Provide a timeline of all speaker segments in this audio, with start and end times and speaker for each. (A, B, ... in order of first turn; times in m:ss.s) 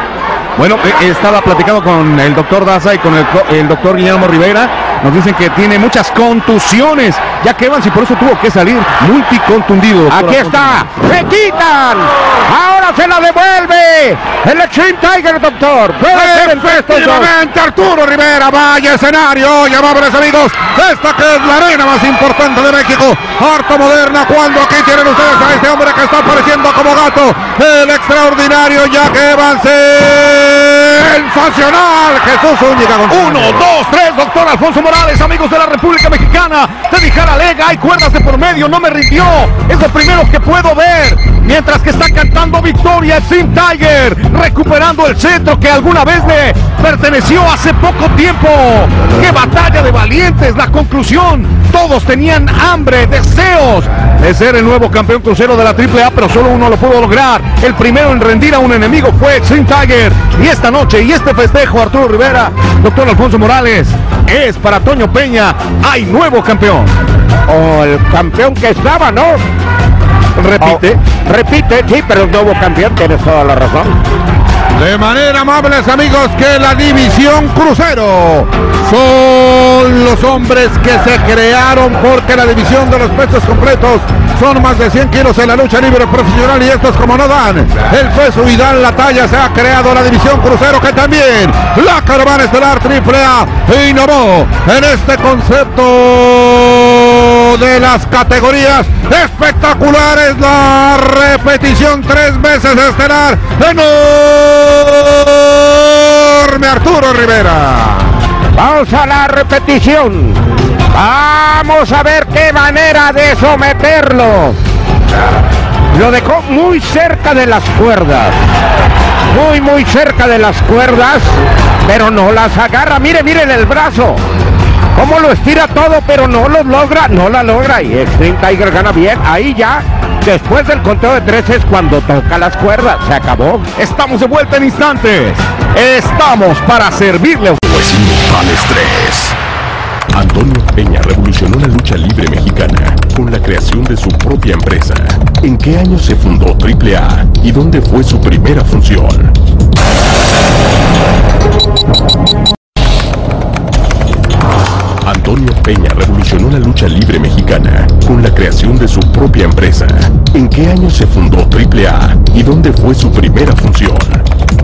0:00.6-0:10.8 A
0:10.1-0:17.3 B
0:16.1-0:33.6 C
0:33.1-1:07.0 A
1:07.5-1:09.4 B
1:10.4-1:11.0 A
1:10.6-1:14.0 B
1:14.7-1:48.2 C
1:48.5-1:50.4 B
1:50.9-1:54.6 B
1:55.9-1:58.3 B
1:59.3-2:04.2 B
2:04.9-2:13.7 B
2:13.8-2:17.7 A
2:17.7-2:19.4 D
2:20.1-2:29.3 D
2:35.0-2:44.2 D